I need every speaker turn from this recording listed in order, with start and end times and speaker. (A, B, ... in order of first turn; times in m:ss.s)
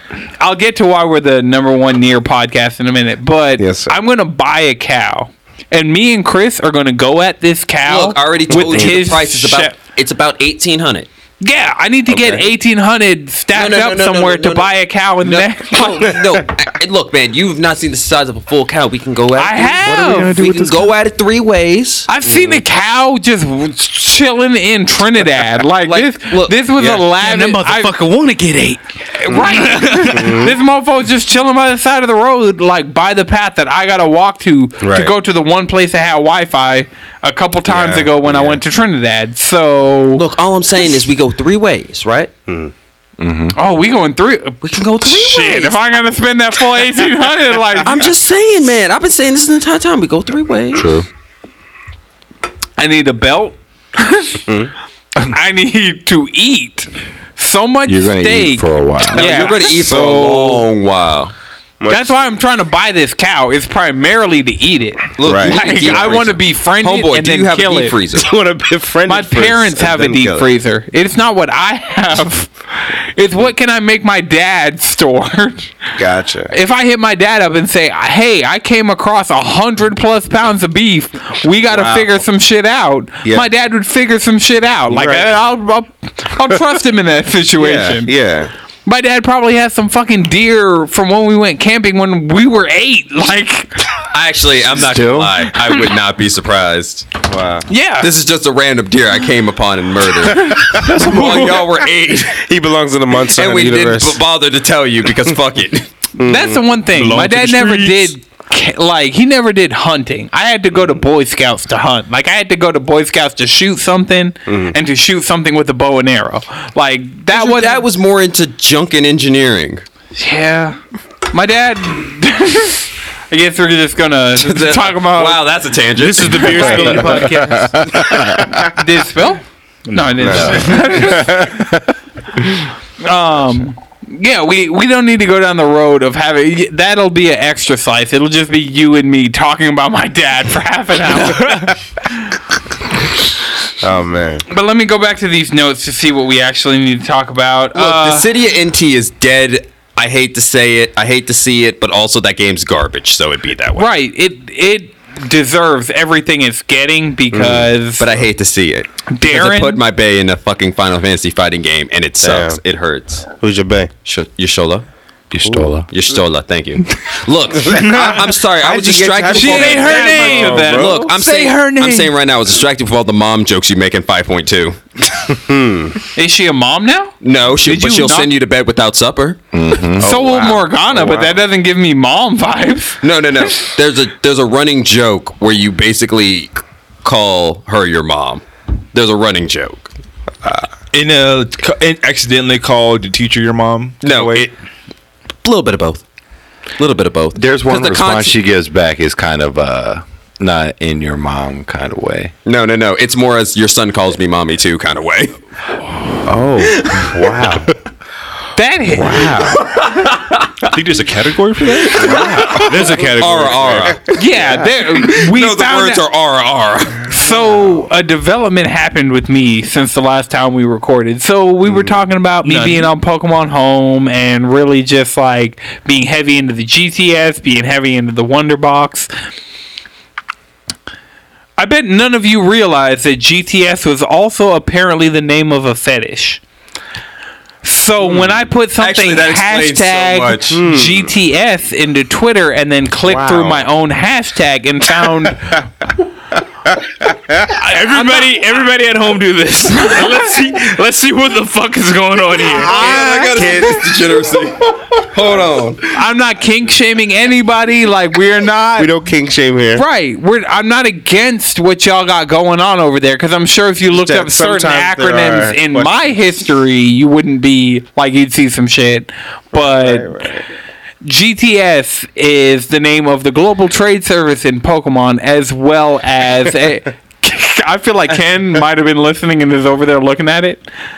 0:00.4-0:09.8 A
0:03.6-0:04.0 B
0:07.9-0:11.1 C
0:08.6-0:09.0 B
0:11.4-0:16.2 A
0:12.1-0:12.4 C
0:13.5-0:14.7 C
0:15.2-0:22.1 C
0:19.4-0:20.5 A
0:19.9-0:20.9 B
0:22.1-0:27.9 A
0:22.2-0:22.6 B
0:25.9-0:26.6 C
0:26.8-0:28.8 D
0:29.2-0:40.2 A
0:29.4-0:30.5 D
0:30.2-0:30.5 B
0:34.8-0:35.2 B
0:37.7-0:38.6 B
0:40.2-0:42.3 C
0:43.2-0:43.6 E
0:43.5-0:48.1 A
0:44.6-0:45.8 C
0:47.8-0:50.9 C
0:50.7-0:51.1 E
0:52.8-0:54.4 A
0:54.5-0:54.7 B
0:55.3-1:00.6 A
0:57.9-0:59.5 E
0:59.1-1:01.3 C
0:59.9-1:00.2 B
1:01.8-1:02.2 B
1:01.9-1:08.0 A
1:05.2-1:08.3 C
1:05.2-1:06.2 B
1:08.1-1:10.5 B
1:09.1-1:15.8 A
1:16.0-1:16.5 B
1:16.5-1:28.1 A
1:21.7-1:22.1 B
1:24.9-1:25.3 B
1:27.6-1:28.5 B
1:28.9-1:33.8 A
1:34.1-1:37.1 C
1:34.9-1:35.3 E
1:35.5-1:35.8 A
1:37.3-1:37.7 B
1:37.7-1:38.1 A
1:38.0-1:42.4 C
1:40.6-1:41.3 A
1:41.0-1:41.3 B
1:42.3-1:44.2 B
1:43.4-1:45.9 C
1:46.2-1:46.6 B
1:46.2-1:57.8 A
1:46.9-1:48.1 D
1:54.5-1:54.8 B
1:57.3-1:59.8 C
2:00.2-2:00.8 A
2:01.3-2:05.4 A
2:04.4-2:07.1 C
2:06.0-2:07.7 D
2:06.4-2:07.7 A
2:07.8-2:08.4 E
2:08.0-2:08.7 B
2:08.6-2:11.6 A
2:09.9-2:10.8 D
2:10.2-2:10.7 B
2:13.0-2:21.7 A
2:23.8-2:24.4 B
2:24.5-2:28.3 A
2:27.8-2:33.9 C
2:33.8-2:38.1 A
2:37.3-2:37.6 B
2:38.0-2:43.3 C
2:39.1-2:39.8 A
2:42.2-2:42.6 B
2:43.4-2:43.9 B
2:44.1-2:44.8 C
2:45.3-2:45.8 E
2:45.9-2:54.8 C
2:47.7-2:51.1 B
2:49.3-2:51.0 A
2:49.4-2:52.2 D
2:55.5-2:56.0 B
2:56.2-2:58.3 A
2:57.2-2:59.4 C
2:59.5-3:00.1 E
3:00.0-3:01.4 B
3:00.0-3:03.0 A
3:03.0-3:06.5 C
3:07.0-3:09.9 C
3:10.9-3:14.5 F
3:14.0-3:14.5 C
3:15.4-3:16.0 C
3:16.8-3:18.4 C
3:17.4-3:22.3 E
3:22.4-3:25.4 C
3:26.3-3:27.6 E
3:26.6-3:27.7 B
3:26.9-3:27.1 C
3:28.6-3:29.4 A
3:28.9-3:29.7 B
3:29.4-3:30.7 C
3:30.7-3:32.6 F
3:31.8-3:34.2 C
3:32.0-3:32.6 B
3:32.5-3:33.8 D
3:34.1-3:36.0 A
3:34.2-3:34.7 B
3:34.9-3:37.1 C
3:37.1-3:49.1 A
3:42.4-3:42.9 D
3:51.6-3:56.4 A
3:57.6-4:05.7 A
3:58.8-4:00.6 C
4:00.5-4:01.1 B
4:03.0-4:03.7 B
4:07.5-4:12.8 D
4:07.6-4:08.4 A
4:12.6-4:13.7 A
4:12.6-4:15.8 C
4:12.6-4:13.9 B
4:15.9-4:18.9 A
4:18.8-4:19.8 B
4:19.8-4:30.1 A
4:23.9-4:26.2 B
4:29.5-4:30.4 B
4:31.0-4:40.7 A